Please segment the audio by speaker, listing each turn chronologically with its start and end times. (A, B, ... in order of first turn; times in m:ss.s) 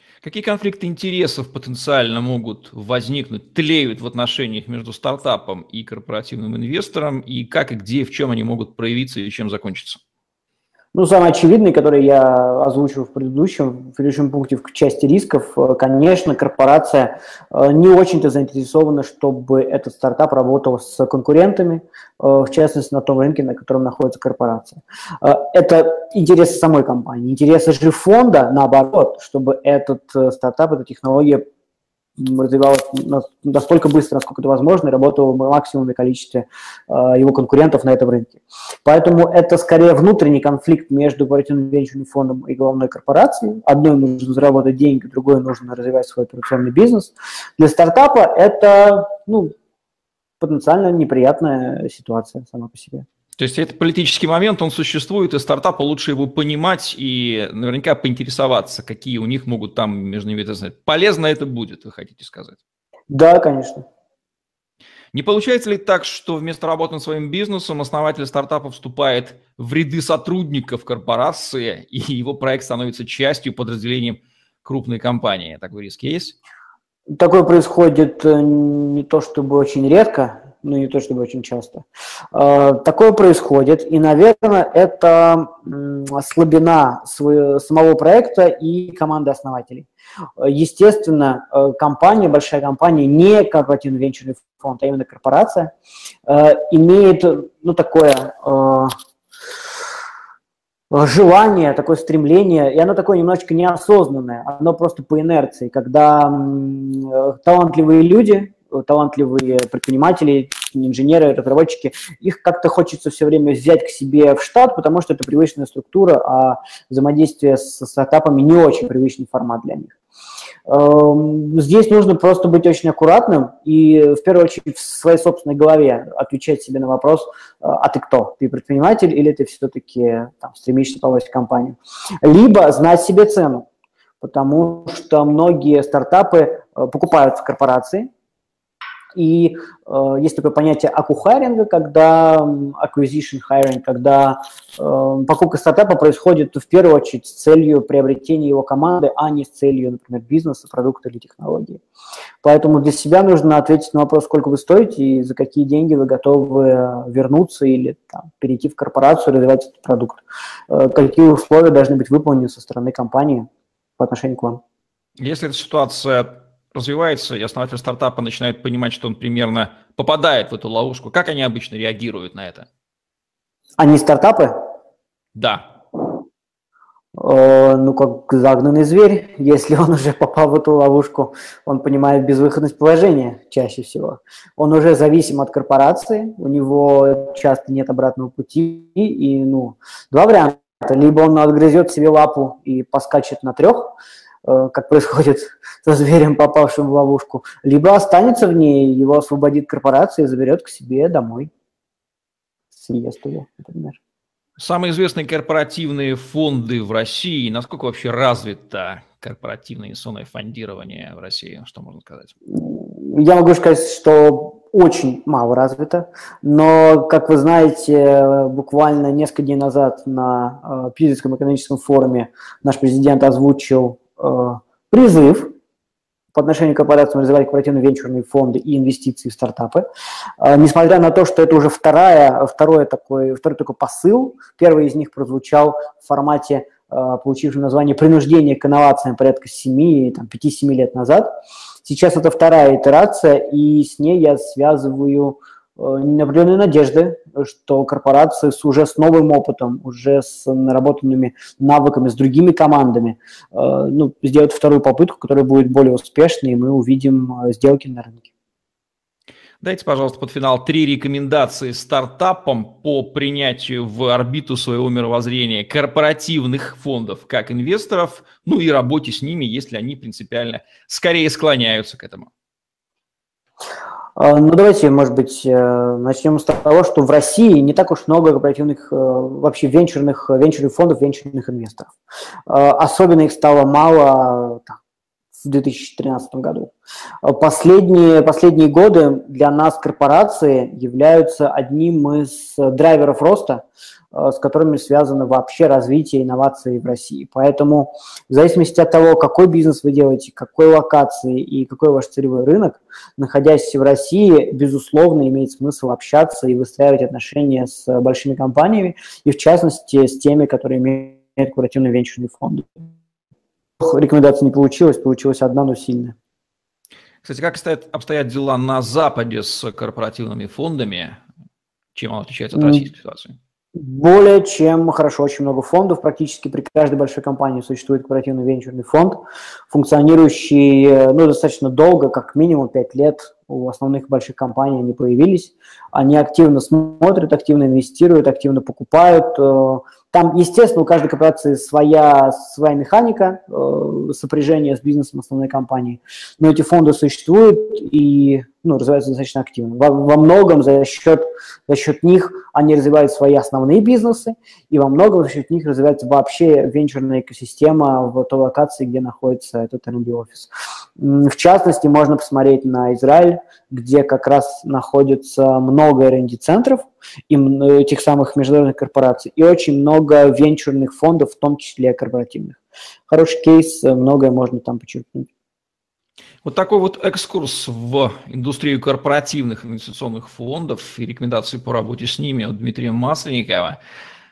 0:00.2-0:10.0 A
0:10.9-0:31.4 B
0:32.2-0:49.5 B
0:50.4-0:53.0 B
0:53.4-1:02.6 A
1:03.1-1:03.9 B
1:05.1-1:16.4 A
1:17.2-1:35.7 B
1:36.2-1:38.9 B
1:40.9-1:59.9 B
2:00.7-2:13.7 B
2:14.2-2:18.1 B
2:19.1-2:31.8 B
2:32.4-2:43.4 B
2:44.0-2:44.6 B
2:45.2-2:52.7 A
2:53.8-2:54.5 B
2:55.3-2:55.7 A
2:57.1-3:21.5 B
3:22.7-3:24.0 B
3:24.6-3:32.3 A
3:32.5-3:45.5 B
3:46.3-3:49.8 B
3:50.4-4:01.3 B
4:01.8-4:18.3 B
4:19.6-4:32.3 A
4:34.2-4:42.0 B
4:42.5-4:44.8 B
4:45.4-5:12.9 B
5:13.8-5:16.2 B
5:17.2-5:21.2 A
5:21.9-5:23.4 A
5:22.5-5:22.9 B
5:23.8-6:15.3 B
6:16.4-6:23.8 A